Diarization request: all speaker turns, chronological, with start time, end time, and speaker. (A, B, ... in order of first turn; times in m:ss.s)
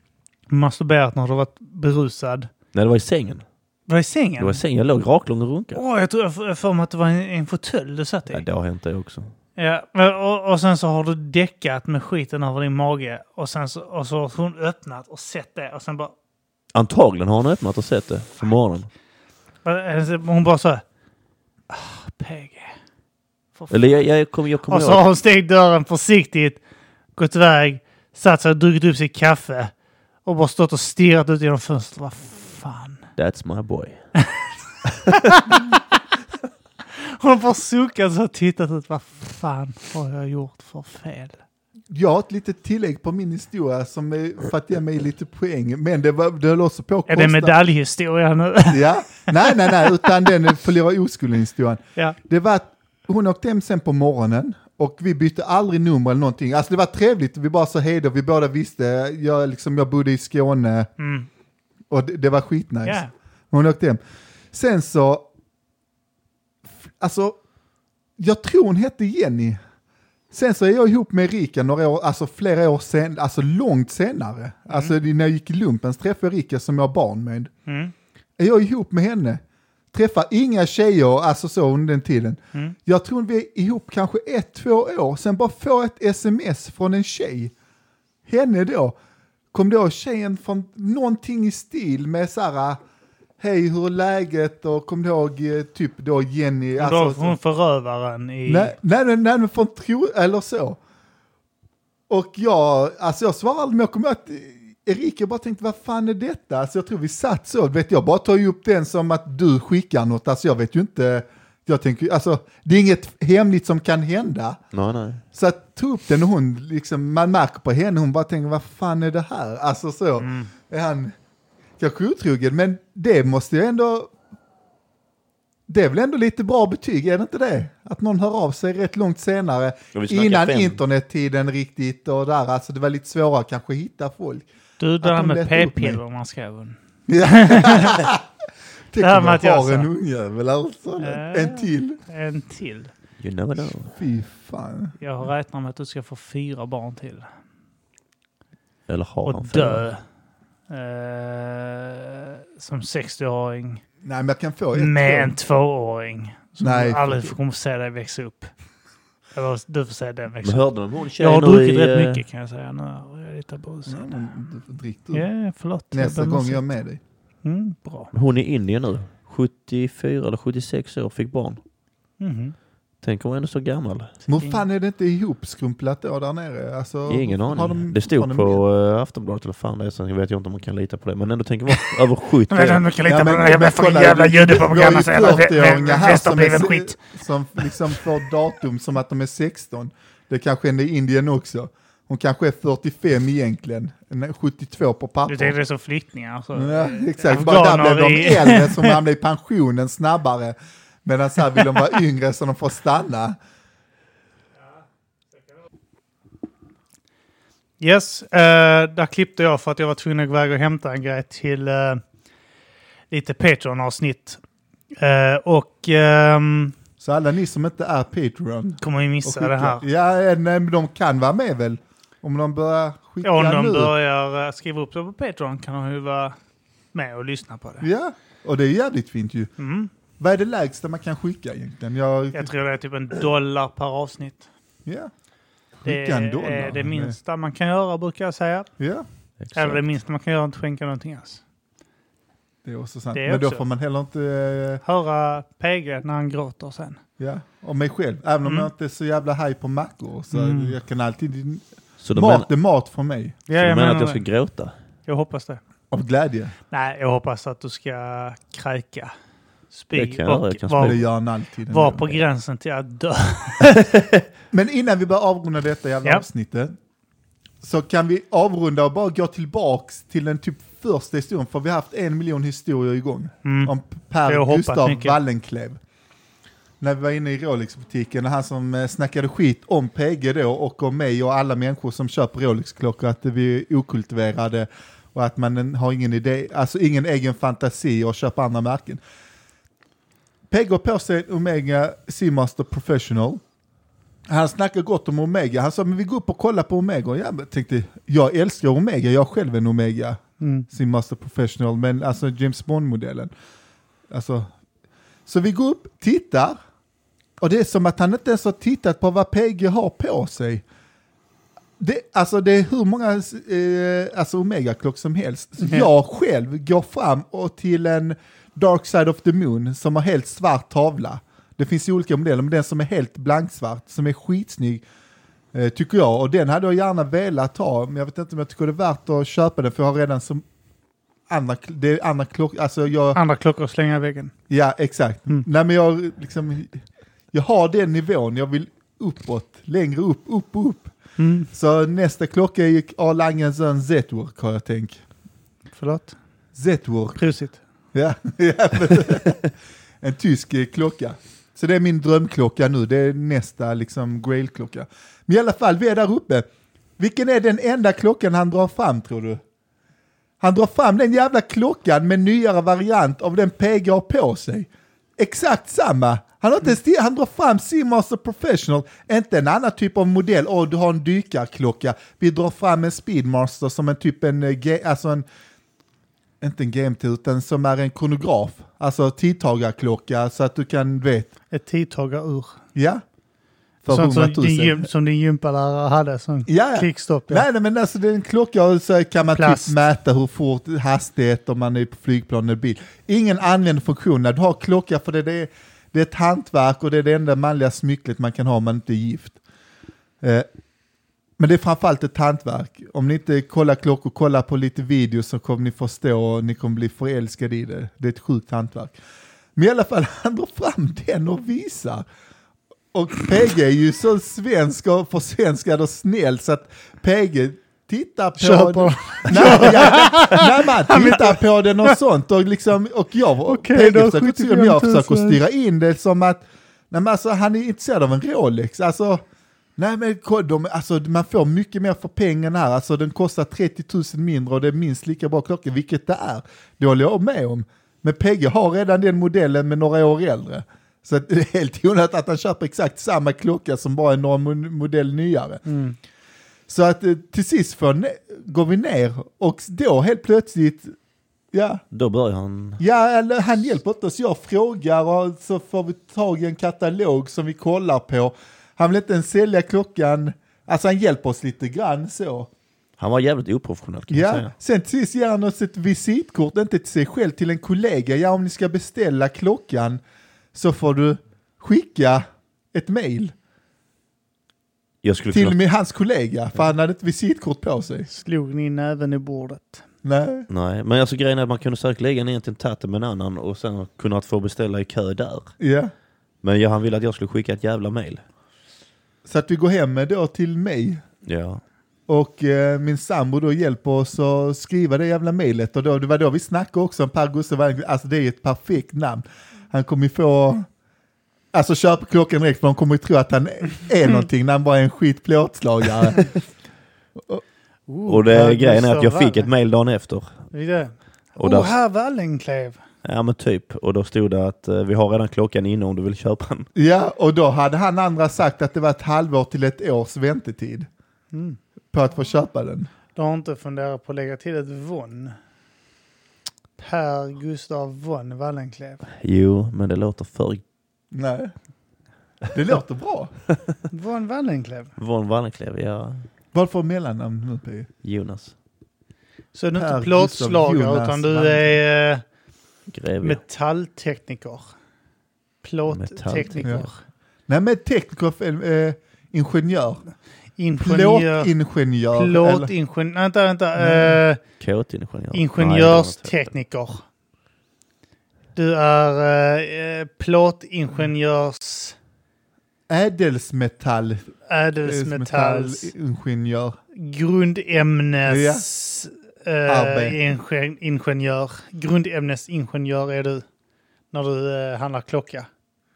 0:00.5-0:02.5 A
0:02.7-0:03.4 B
0:03.9-0:04.6 A
0:04.4-0:05.8 B
0:05.7-0:08.4 A
0:08.3-0:09.3 B
0:09.6-0:16.1 A
0:16.7-0:18.9 B
0:19.6-0:20.8 A
0:21.7-0:22.7 A
0:23.6-0:24.0 A
0:23.7-0:25.1 B
0:24.7-0:26.6 A
0:27.2-0:29.7 A
0:30.2-0:33.1 A
0:33.2-0:34.1 B
0:35.4-0:35.6 A
0:37.2-0:41.4 A
0:41.9-0:47.6 C
0:47.1-0:49.9 A
0:48.7-1:00.9 C
1:01.0-1:01.3 A
1:01.9-1:04.0 C
1:02.8-1:03.1 A
1:04.5-1:05.3 C
1:07.0-1:07.4 C
1:08.2-1:09.6 C
1:10.3-1:17.5 C
1:17.7-1:17.9 A
1:18.4-1:27.5 C
1:28.3-1:29.0 C
1:29.5-1:32.8 C
1:33.4-1:37.4 C
1:36.8-1:38.7 A
1:38.5-1:40.8 C
1:42.1-1:54.6 C
1:54.7-1:55.2 B
1:55.3-2:01.2 C
2:00.2-2:00.5 A
2:01.8-2:04.1 C
2:05.7-2:14.5 C
2:09.9-2:10.8 B
2:14.8-2:18.1 A
2:15.0-2:16.0 C
2:17.1-2:18.2 C
2:18.9-2:22.0 C
2:19.0-2:19.9 A
2:21.0-2:22.9 A
2:23.2-2:23.9 B
2:23.8-2:25.0 C
2:25.0-2:27.3 A
2:28.9-2:29.8 B
2:29.3-2:30.0 A
2:30.7-2:33.8 A
2:34.0-2:35.4 C
2:34.7-2:38.5 A
2:36.6-2:37.4 C
2:39.3-2:44.3 A
2:40.4-2:42.2 B
2:43.9-2:45.3 C
2:45.1-2:46.6 A
2:45.9-2:47.0 C
2:47.4-2:48.1 A
2:48.1-2:51.6 B
2:52.2-2:52.6 A
2:53.0-2:54.1 B
2:54.3-2:58.6 C
2:54.4-2:54.6 A
2:57.1-3:02.9 B
3:02.5-3:07.0 A
3:03.0-3:15.6 C
3:15.3-3:19.0 A
3:16.5-3:23.4 C
3:27.8-3:32.0 A
3:33.1-3:34.4 A
3:35.0-3:36.7 A
3:37.0-3:43.9 C
3:38.8-3:39.8 A
3:43.2-3:46.4 A
3:46.9-3:47.9 A
3:47.8-3:49.5 C
3:49.6-3:49.9 A
3:50.2-3:52.5 C
3:52.3-3:54.5 A
3:54.9-3:55.1 C
3:55.8-3:57.2 C
3:55.8-3:58.7 A
3:58.8-3:59.1 C
3:59.4-3:59.8 B
3:59.5-4:01.4 A
4:02.6-4:04.8 C
4:03.1-4:03.6 A
4:04.8-4:07.0 A
4:07.2-4:13.4 C
4:10.3-4:10.8 A
4:12.0-4:12.5 B
4:13.5-4:14.2 A
4:13.6-4:14.7 B
4:15.1-4:15.6 A
4:15.9-4:16.5 C
4:16.7-4:19.1 A
4:19.7-4:21.0 A
4:19.9-4:21.0 B
4:20.8-4:22.2 C
4:21.7-4:23.8 A
4:24.5-4:26.7 C
4:27.6-4:35.8 C
4:33.4-4:33.7 A
4:34.3-4:35.2 A
4:36.8-4:49.0 C
4:50.5-4:53.4 C
4:54.3-5:03.3 C
5:00.4-5:00.7 A
5:04.1-5:04.5 C
5:05.3-5:06.6 C
5:07.4-5:10.6 C
5:11.8-5:24.8 C
5:25.5-5:30.4 C
5:31.3-5:33.2 C
5:33.1-5:34.3 A
5:34.5-5:36.8 C
5:37.3-5:41.0 C
5:41.2-5:41.5 A
5:41.5-5:45.0 C
5:45.8-5:46.2 A
5:46.6-5:47.2 C
5:47.2-5:47.6 A
5:47.9-5:49.4 C
5:50.0-5:56.5 C
5:57.0-5:59.4 C
6:00.4-6:15.3 C
6:16.4-6:21.3 C
6:21.5-6:22.6 A
6:22.8-6:23.0 C
6:23.8-6:24.9 C
6:23.9-6:27.5 A
6:26.5-6:39.4 C
6:29.3-6:29.8 A
6:40.2-6:40.5 C
6:41.4-6:49.0 C
6:49.6-6:52.0 C
6:52.9-7:09.2 C
6:58.4-7:02.0 A
7:03.5-7:05.4 A
7:09.8-7:25.6 C
7:25.6-7:26.0 A
7:26.7-7:31.0 C
7:31.5-7:31.8 C
7:31.9-7:32.8 B
7:32.8-7:42.5 C
7:43.0-7:44.5 B
7:44.1-7:50.0 C
7:50.5-7:53.3 C
7:55.0-7:55.6 B
7:55.3-7:58.1 C
7:58.1-7:59.8 A
8:00.0-8:00.5 C
8:00.5-8:05.5 B
8:05.6-8:05.9 C
8:06.4-8:08.2 B
8:09.3-8:11.0 C
8:11.3-8:11.6 B
8:12.1-8:20.7 C
8:21.5-8:26.4 C
8:27.9-8:29.5 A
8:28.1-8:30.5 B
8:30.5-8:32.8 A
8:31.4-8:31.8 B
8:33.0-8:36.7 B
8:36.8-8:40.9 C
8:41.3-8:41.6 A
8:41.9-8:42.9 C
8:43.1-8:45.4 A
8:46.8-8:49.0 A
8:49.2-8:50.6 B
8:51.1-8:51.5 C
8:52.5-8:53.3 C
8:53.9-8:55.0 A
8:55.0-8:56.2 B
8:56.5-8:57.9 C
8:58.0-8:58.5 B
8:59.5-9:02.2 A
8:59.8-9:01.8 C
9:02.9-9:03.4 B
9:03.2-9:04.8 A
9:05.6-9:07.0 A
9:05.9-9:06.9 B
9:07.5-9:10.0 C
9:10.6-9:11.5 A
9:10.8-9:12.7 C
9:12.1-9:14.4 A
9:13.8-9:14.2 C
9:14.6-9:16.5 B
9:15.3-9:17.0 A
9:18.6-9:22.0 A
9:22.9-9:24.3 C
9:24.5-9:25.9 A
9:24.9-9:26.8 C
9:27.0-9:33.4 A
9:28.3-9:28.6 C
9:29.7-9:30.2 C
9:34.1-9:35.5 A